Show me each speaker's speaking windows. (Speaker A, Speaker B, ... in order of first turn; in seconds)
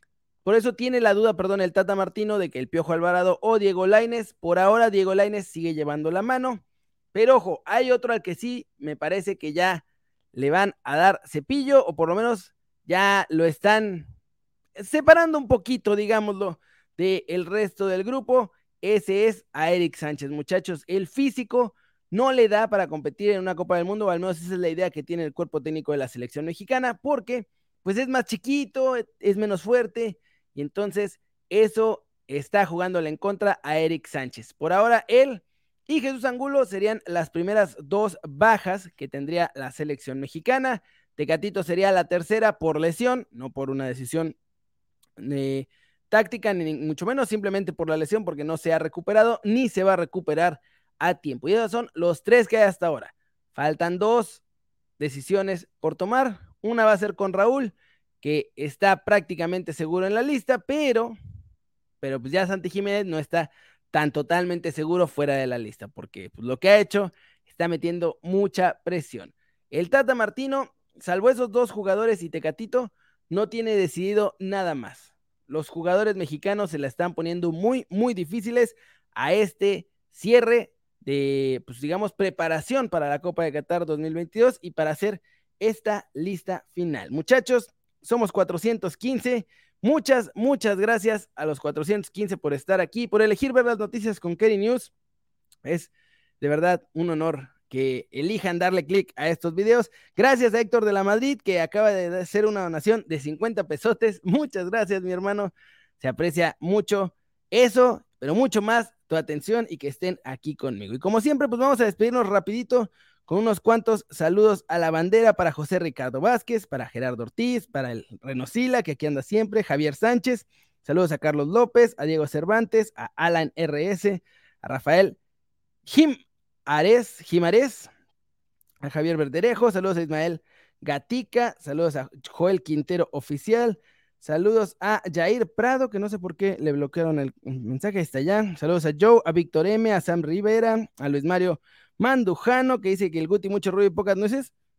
Speaker A: 0.5-6.6, 7.1-14.1, 14.8-44.4, 45.2-54.4, 55.0-61.1, 62.0-94.9, 95.6-125.2, 125.9-127.9, 128.8-144.5